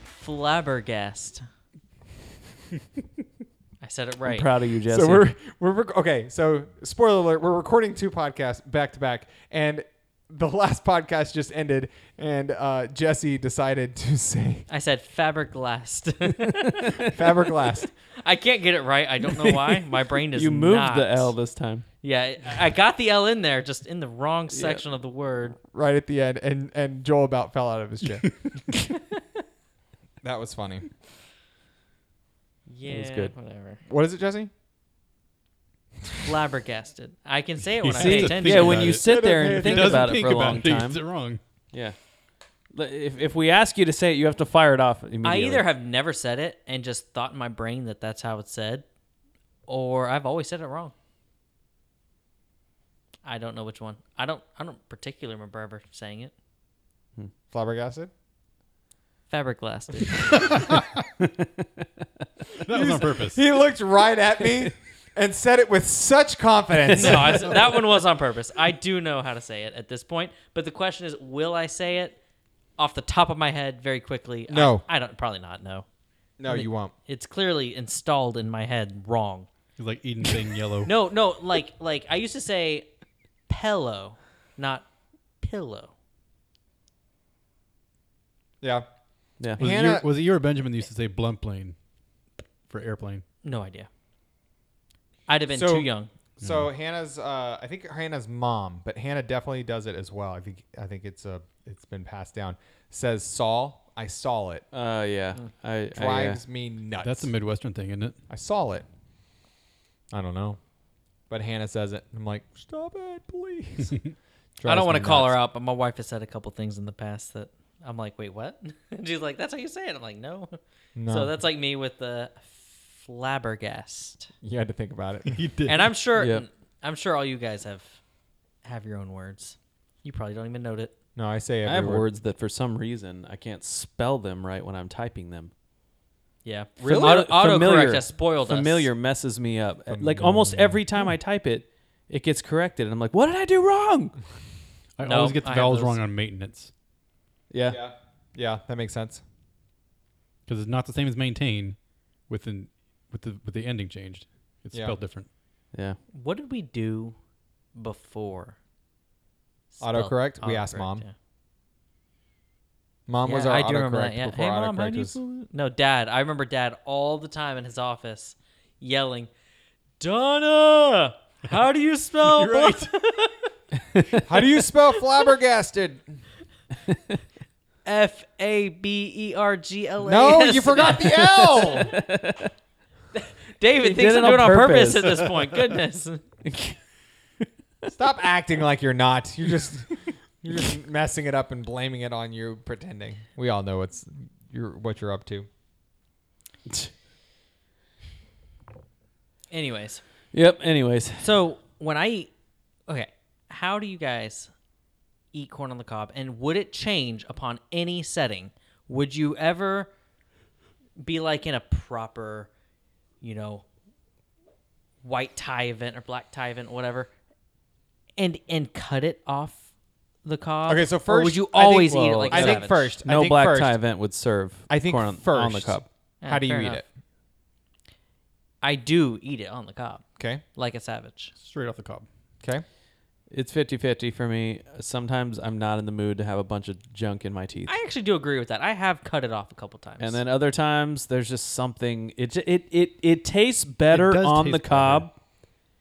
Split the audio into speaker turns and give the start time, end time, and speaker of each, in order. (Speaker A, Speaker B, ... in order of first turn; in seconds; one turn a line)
Speaker A: 0.1-1.4
Speaker A: 3.8-4.5
Speaker B: 4.2-5.2
Speaker C: 4.8-14.7
Speaker A: 14.7-17.1
Speaker C: 17.0-17.9
Speaker A: 18.2-21.4
Speaker B: 19.3-19.8
Speaker B: 20.3-21.9
Speaker A: 22.0-25.6
Speaker B: 24.5-24.8
Speaker C: 25.7-28.3
Speaker C: 30.2-30.9
Speaker A: 32.7-33.8
Speaker B: 32.9-33.3
Speaker C: 33.9-34.5
Speaker A: 36.2-39.0
Speaker D: 37.8-41.4
Speaker B: 38.0-41.0
Speaker C: 38.5-40.3
Speaker B: 42.7-45.7
Speaker A: 45.2-48.9
Speaker A: 49.7-50.9
Speaker A: 53.2-56.3
Speaker C: 57.5-58.1
Speaker A: 59.3-60.6
Speaker B: 61.2-61.8
Speaker D: 62.6-63.4
Speaker C: 62.7-67.7
Speaker B: 66.9-67.2
Speaker A: 66.9-72.2
Speaker A: 72.8-75.9
Speaker C: 74.5-74.8
Speaker C: 76.4-76.9
Speaker A: 76.5-79.5
Speaker D: 79.8-80.9
Speaker A: 80.8-82.9
Speaker A: 83.5-84.9
Speaker A: 85.4-85.9
Speaker C: 88.6-88.9
Speaker C: 89.5-90.1
Speaker D: 89.6-91.8
Speaker D: 92.7-93.2
Speaker A: 93.4-93.9
Speaker A: 95.3-96.1
Speaker C: 95.5-95.9
Speaker C: 96.4-104.7
Speaker D: 96.4-96.7
Speaker B: 104.7-106.4
Speaker C: 106.0-107.3
Speaker D: 107.0-108.2
Speaker C: 108.3-108.9
Speaker C: 110.1-110.6
Speaker C: 111.3-114.0
Speaker C: 114.6-115.4
Speaker A: 114.7-124.3
Speaker C: 121.0-121.3
Speaker C: 124.4-125.4
Speaker D: 125.3-125.9
Speaker A: 125.7-128.0
Speaker B: 126.2-126.5
Speaker A: 128.6-130.9
Speaker C: 131.2-132.1
Speaker B: 131.7-135.5
Speaker A: 136.4-138.9
Speaker C: 136.8-137.3
Speaker B: 136.8-144.2
Speaker C: 139.9-140.8
Speaker D: 145.0-146.7
Speaker A: 145.0-146.0
Speaker B: 147.5-147.8
Speaker C: 147.7-149.2
Speaker D: 150.5-155.3
Speaker A: 156.1-157.2
Speaker A: 157.8-158.6
Speaker A: 159.7-161.1
Speaker C: 159.8-161.1
Speaker C: 163.1-165.2
Speaker A: 163.2-169.3
Speaker A: 170.0-173.5
Speaker D: 172.2-172.9
Speaker B: 174.0-174.2
Speaker C: 174.2-176.2
Speaker A: 177.9-181.7
Speaker C: 180.0-182.0
Speaker B: 181.0-182.5
Speaker A: 183.1-186.2
Speaker B: 183.8-185.3
Speaker B: 186.5-186.8
Speaker C: 187.9-195.5
Speaker A: 199.5-200.0
Speaker B: 200.3-201.3
Speaker A: 201.2-202.3
Speaker A: 202.9-204.5
Speaker A: 205.3-209.9
Speaker A: 211.0-212.5
Speaker A: 213.2-213.7
Speaker A: 215.0-217.1
Speaker A: 218.2-219.6
Speaker A: 220.2-222.9
Speaker C: 220.7-223.8
Speaker B: 221.9-225.9
Speaker C: 224.7-226.8
Speaker A: 226.2-226.8
Speaker A: 228.6-230.0
Speaker C: 230.2-230.4
Speaker A: 230.6-231.3
Speaker D: 231.4-232.1
Speaker B: 233.3-237.7
Speaker A: 237.7-240.2
Speaker B: 240.0-245.1
Speaker D: 243.9-245.1